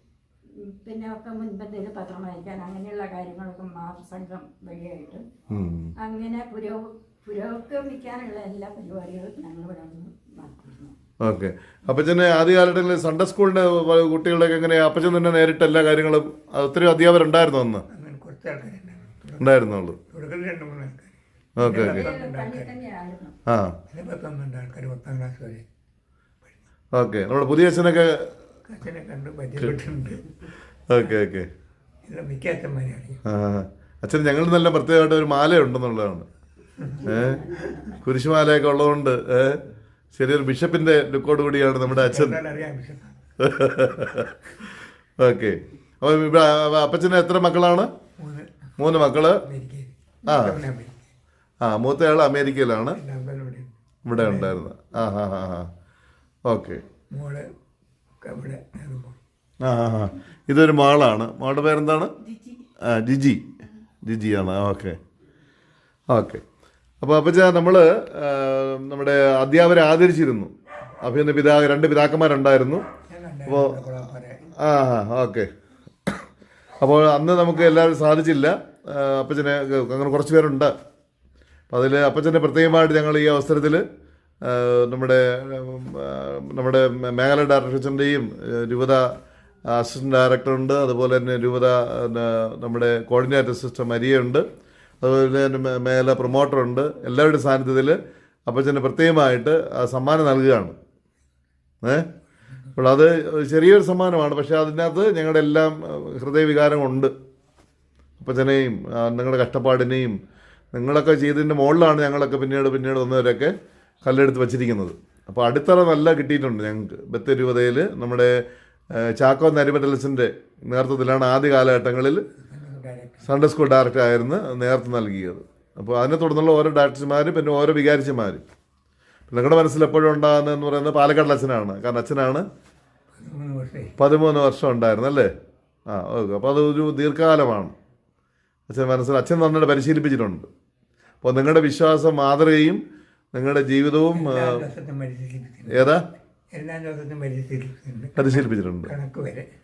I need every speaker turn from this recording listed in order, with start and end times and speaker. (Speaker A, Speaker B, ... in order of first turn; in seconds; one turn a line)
Speaker A: 0.6-5.2
Speaker B: 5.5-5.9
Speaker A: 6.0-10.9
Speaker B: 11.2-17.8
Speaker C: 17.9-22.8
Speaker B: 19.4-19.9
Speaker B: 21.6-22.0
Speaker A: 21.8-23.4
Speaker B: 23.5-23.7
Speaker C: 23.9-25.6
Speaker B: 26.9-28.3
Speaker C: 28.6-30.2
Speaker B: 30.9-31.5
Speaker C: 32.0-33.2
Speaker B: 33.2-36.3
Speaker C: 36.8-37.1
Speaker B: 37.0-39.6
Speaker B: 40.1-42.4
Speaker C: 41.9-43.2
Speaker B: 43.4-44.3
Speaker B: 45.2-47.9
Speaker C: 48.2-51.1
Speaker B: 48.8-49.4
Speaker B: 50.3-50.5
Speaker B: 51.6-53.0
Speaker C: 52.9-54.6
Speaker B: 54.0-55.7
Speaker B: 56.5-56.8
Speaker C: 57.1-57.4
Speaker C: 58.3-59.2
Speaker B: 59.6-62.1
Speaker B: 62.8-63.4
Speaker B: 64.0-65.0
Speaker B: 66.1-66.4
Speaker B: 67.0-72.8
Speaker C: 73.1-74.5
Speaker B: 73.5-73.9
Speaker B: 74.6-75.5
Speaker B: 76.8-80.7
Speaker B: 81.7-83.8
Speaker B: 84.5-89.1
Speaker B: 89.7-94.4
Speaker B: 95.0-100.8
Speaker B: 102.8-107.1
Speaker B: 108.2-110.2
Speaker B: 110.7-118.4
Speaker B: 119.0-122.2
Speaker C: 122.4-123.3
Speaker B: 123.2-128.4
Speaker B: 129.3-132.4
Speaker C: 133.1-133.9
Speaker B: 134.0-135.3
Speaker B: 135.9-137.7
Speaker B: 138.7-140.5
Speaker B: 141.2-142.8
Speaker B: 143.3-144.6
Speaker C: 144.1-145.9
Speaker B: 145.7-146.0
Speaker C: 146.5-149.5
Speaker B: 148.2-148.9